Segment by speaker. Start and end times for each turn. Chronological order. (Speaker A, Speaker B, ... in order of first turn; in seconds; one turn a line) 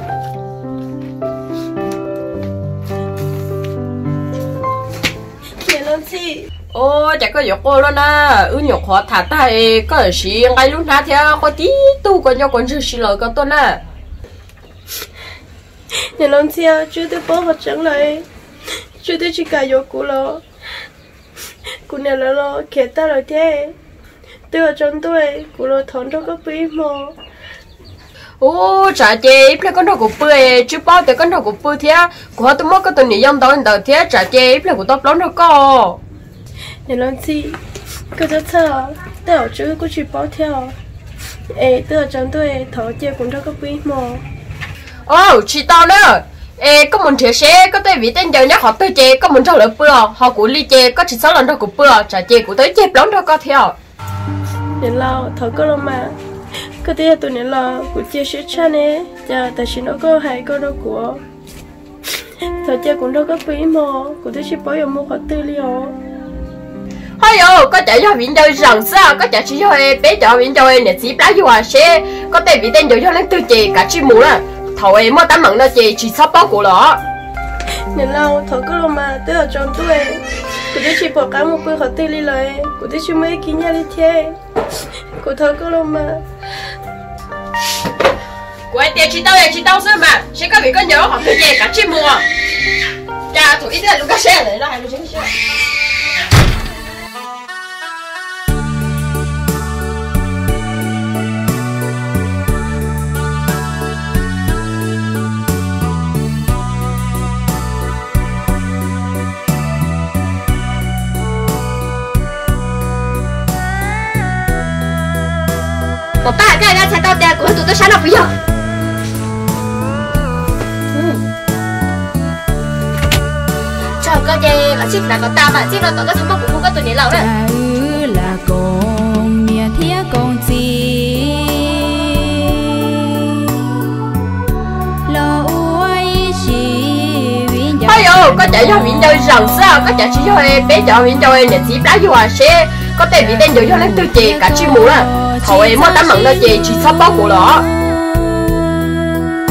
Speaker A: 5.6-6.5
Speaker B: 6.7-13.8
Speaker A: 16.2-18.3
Speaker A: 19.0-20.4
Speaker A: 21.9-23.8
Speaker A: 24.5-27.2
Speaker B: 28.4-36.0
Speaker A: 36.9-37.6
Speaker A: 38.1-40.8
Speaker A: 41.5-44.2
Speaker B: 45.1-53.8
Speaker A: 54.8-56.2
Speaker A: 56.8-61.2
Speaker A: 62.6-66.0
Speaker B: 67.2-77.0
Speaker A: 77.9-84.4
Speaker A: 85.2-86.2
Speaker B: 88.7-92.2
Speaker B: 93.3-95.3
Speaker C: 116.2-118.3
Speaker C: 120.9-121.2
Speaker C: 124.0-127.3
Speaker D: 127.1-132.8
Speaker D: 135.1-139.6
Speaker B: 137.9-147.7
Speaker D: 143.2-149.0